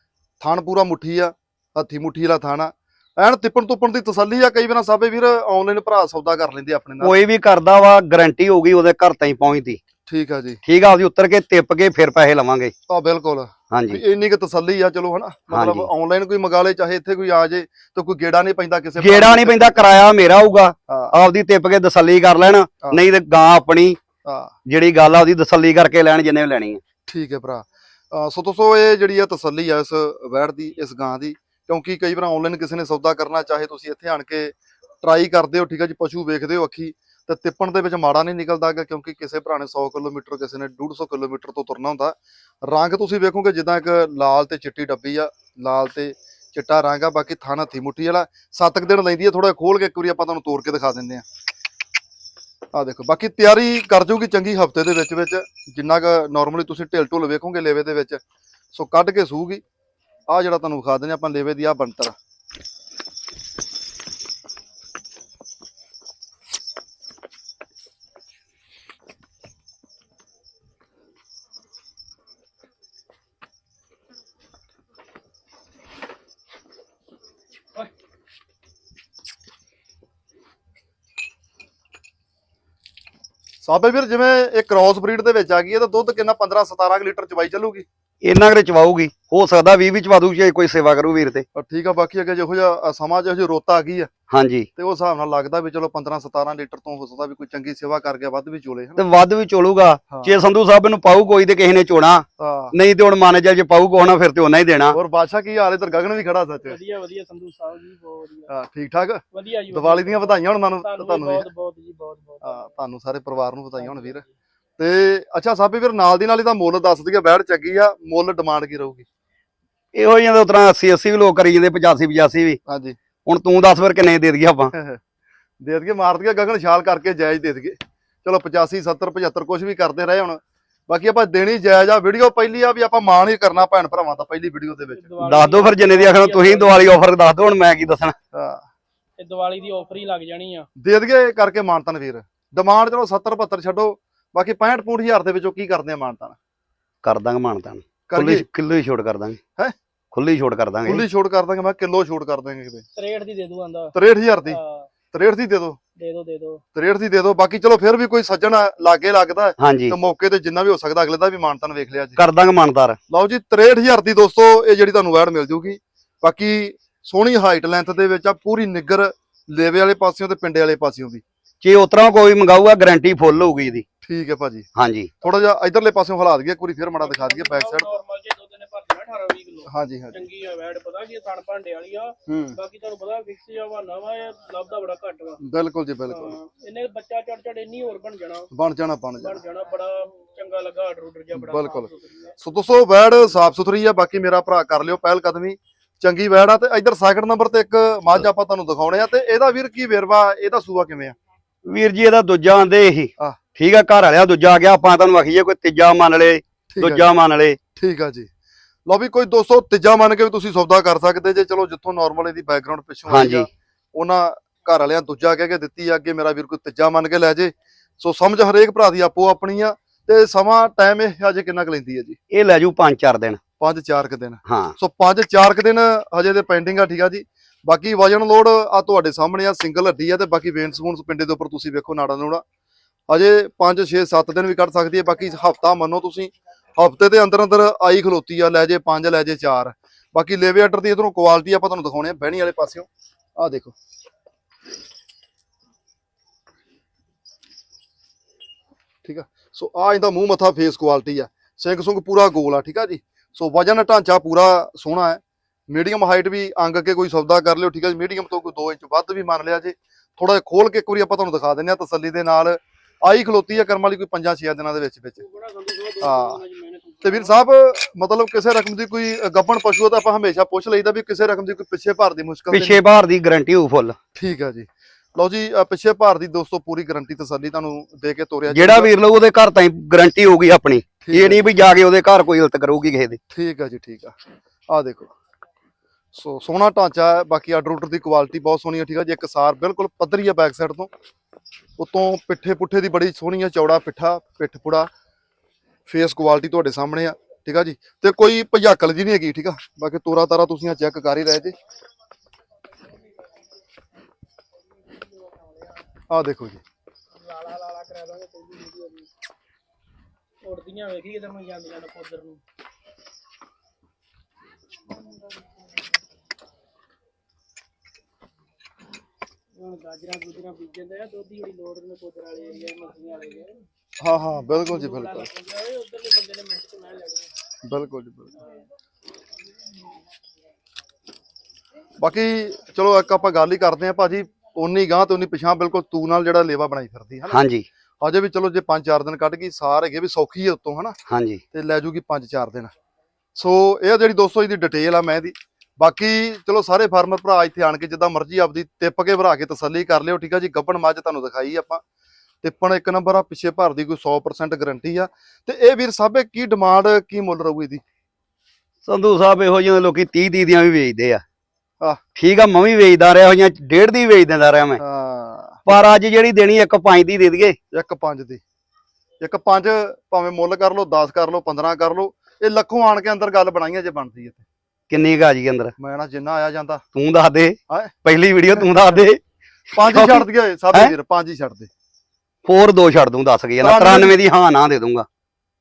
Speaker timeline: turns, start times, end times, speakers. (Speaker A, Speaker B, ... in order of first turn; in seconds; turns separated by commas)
Speaker A: 0.4-7.1, Speaker B: 7.0-9.8, Speaker A: 10.1-10.6, Speaker B: 10.7-12.7, Speaker A: 12.9-19.9, Speaker B: 13.7-14.0, Speaker B: 15.5-15.9, Speaker B: 19.0-24.0, Speaker A: 24.2-24.5, Speaker B: 24.7-26.8, Speaker A: 27.1-51.2, Speaker A: 52.7-58.2, Speaker A: 58.7-59.6, Speaker A: 60.3-62.1, Speaker A: 83.6-87.9, Speaker B: 88.2-91.5, Speaker A: 91.5-94.1, Speaker B: 94.3-94.7, Speaker A: 94.8-99.0, Speaker B: 99.0-105.0, Speaker A: 100.1-100.3, Speaker A: 102.4-102.7, Speaker A: 104.9-106.8, Speaker C: 106.7-108.5, Speaker A: 108.5-111.5, Speaker C: 109.3-112.7, Speaker A: 112.4-114.2, Speaker C: 113.8-114.3, Speaker A: 114.8-119.1, Speaker B: 120.0-122.6, Speaker A: 122.7-123.0, Speaker B: 123.3-124.7, Speaker A: 124.7-125.0, Speaker A: 125.6-135.1, Speaker C: 135.0-136.9, Speaker B: 135.2-138.2, Speaker A: 138.3-138.7, Speaker C: 139.2-140.7, Speaker A: 140.8-146.4, Speaker B: 147.0-149.4, Speaker A: 148.1-148.4, Speaker B: 150.1-151.1, Speaker A: 150.8-152.8, Speaker C: 153.0-153.9, Speaker A: 153.9-154.6, Speaker C: 154.5-154.9, Speaker A: 155.1-155.8, Speaker C: 156.0-156.6, Speaker A: 156.8-162.2, Speaker B: 159.6-160.0, Speaker B: 162.2-163.0, Speaker A: 163.1-171.2, Speaker B: 171.6-173.8, Speaker A: 174.0-174.7, Speaker B: 174.8-175.1, Speaker A: 175.2-177.9, Speaker C: 177.0-185.4, Speaker A: 179.7-180.3, Speaker A: 182.3-182.6, Speaker A: 185.4-186.4, Speaker C: 186.1-188.5, Speaker A: 188.5-189.4, Speaker C: 189.2-192.3, Speaker A: 191.3-201.2, Speaker B: 201.7-207.6, Speaker A: 206.7-207.1, Speaker A: 207.8-208.3, Speaker A: 208.9-222.2, Speaker B: 213.1-213.5, Speaker B: 222.3-223.4, Speaker A: 223.6-232.4, Speaker B: 224.5-224.8, Speaker A: 233.1-243.8, Speaker A: 249.1-265.2, Speaker C: 265.2-267.4, Speaker A: 266.0-266.4, Speaker A: 267.0-272.8, Speaker B: 272.5-274.0, Speaker A: 274.1-278.9, Speaker B: 278.5-283.2, Speaker A: 281.0-281.5, Speaker A: 283.3-284.1, Speaker A: 284.7-285.1, Speaker A: 286.1-290.9, Speaker A: 291.8-294.9, Speaker A: 295.9-301.6, Speaker A: 306.1-306.6, Speaker C: 307.2-309.1, Speaker C: 310.4-312.4, Speaker C: 319.6-323.6, Speaker A: 324.0-325.3, Speaker C: 324.6-327.3, Speaker A: 327.6-328.3, Speaker A: 332.0-337.4, Speaker B: 337.3-337.7, Speaker A: 338.0-341.0, Speaker B: 341.1-341.4, Speaker A: 341.5-342.7, Speaker A: 343.4-351.8, Speaker A: 352.4-357.8, Speaker B: 358.9-361.2, Speaker B: 362.2-364.8, Speaker A: 364.8-365.6, Speaker B: 365.7-367.6, Speaker A: 367.7-368.4, Speaker A: 369.2-374.4, Speaker B: 374.9-375.7, Speaker A: 375.8-376.8, Speaker B: 376.9-379.2, Speaker A: 377.7-377.9, Speaker B: 379.7-380.9, Speaker A: 379.8-381.7, Speaker B: 382.4-385.1, Speaker A: 383.6-384.2